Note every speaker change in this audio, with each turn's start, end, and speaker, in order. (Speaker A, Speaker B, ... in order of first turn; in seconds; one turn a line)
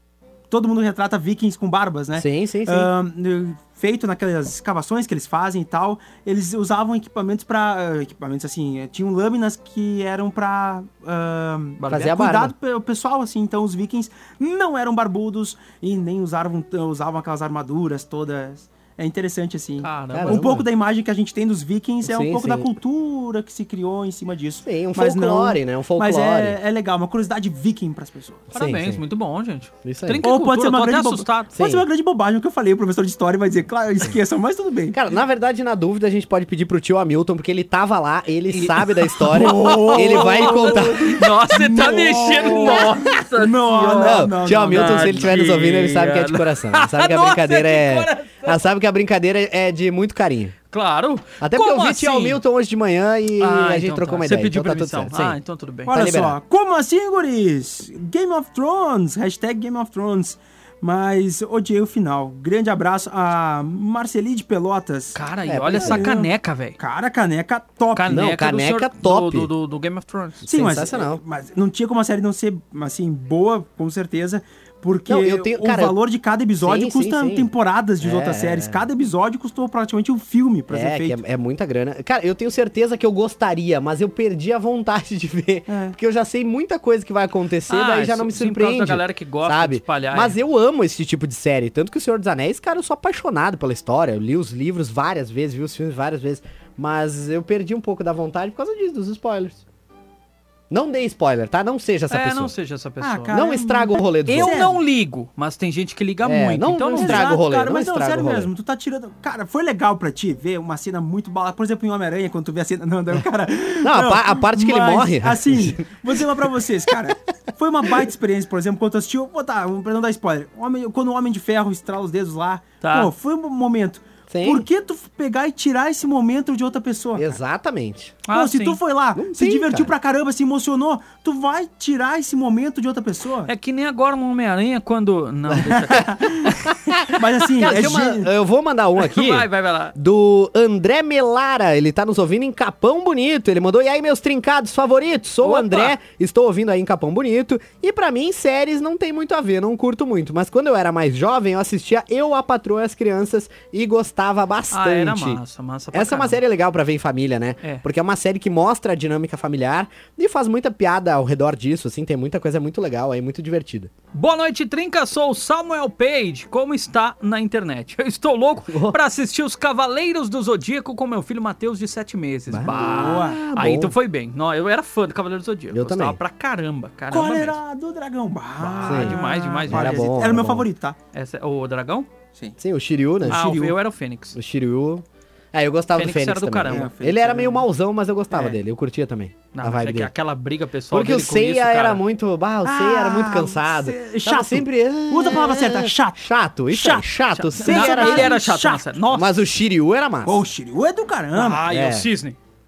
Speaker A: 0.5-28.5
Speaker B: 2.1-2.9
Speaker B: 11.9-12.5
Speaker C: 19.8-20.4
Speaker B: 20.1-20.6
Speaker B: 22.1-22.7
Speaker B: 24.6-26.6
Speaker B: 28.5-29.0
Speaker C: 28.5-31.5
Speaker B: 29.8-30.2
Speaker A: 30.2-35.0
Speaker B: 31.6-31.9
Speaker B: 34.9-41.4
Speaker C: 38.5-48.6
Speaker A: 39.3-45.6
Speaker B: 42.4-42.9
Speaker B: 44.0-50.6
Speaker C: 50.7-52.4
Speaker B: 51.4-55.4
Speaker C: 53.4-55.9
Speaker A: 55.9-65.2
Speaker B: 55.9-56.4
Speaker C: 65.1-66.8
Speaker B: 65.5-66.1
Speaker A: 65.8-68.2
Speaker C: 67.9-70.5
Speaker B: 68.1-69.5
Speaker B: 70.4-71.2
Speaker A: 70.5-81.2
Speaker B: 75.0-76.0
Speaker B: 76.6-78.8
Speaker B: 80.7-99.6
Speaker A: 85.7-86.0
Speaker C: 87.7-90.3
Speaker B: 100.7-102.5
Speaker C: 102.1-103.4
Speaker A: 103.0-104.8
Speaker B: 103.3-104.6
Speaker C: 104.3-107.4
Speaker B: 106.2-108.5
Speaker A: 107.0-127.4
Speaker B: 113.8-116.5
Speaker C: 122.8-123.1
Speaker B: 124.3-124.7
Speaker B: 127.2-128.2
Speaker C: 128.3-128.8
Speaker A: 128.3-133.5
Speaker B: 129.2-129.9
Speaker C: 133.5-136.7
Speaker B: 135.5-136.9
Speaker A: 135.7-136.6
Speaker A: 137.1-138.3
Speaker B: 137.6-155.4
Speaker C: 137.6-137.9
Speaker C: 139.0-139.9
Speaker C: 145.4-146.0
Speaker C: 154.7-156.4
Speaker B: 155.9-163.9
Speaker C: 164.1-177.6
Speaker B: 168.7-169.0
Speaker B: 172.5-173.9
Speaker A: 172.7-173.4
Speaker B: 175.7-176.2
Speaker A: 177.1-181.0
Speaker C: 178.6-180.2
Speaker B: 178.8-180.7
Speaker C: 181.1-182.1
Speaker B: 182.6-183.4
Speaker A: 183.2-183.8
Speaker C: 183.3-184.4
Speaker B: 184.3-190.1
Speaker C: 186.0-186.9
Speaker A: 186.7-187.7
Speaker C: 189.5-192.0
Speaker B: 190.9-198.4
Speaker A: 192.6-196.2
Speaker A: 196.7-197.1
Speaker C: 197.3-199.3
Speaker A: 197.6-198.9
Speaker B: 199.1-200.4
Speaker A: 200.2-201.7
Speaker C: 201.3-202.4
Speaker B: 201.7-202.1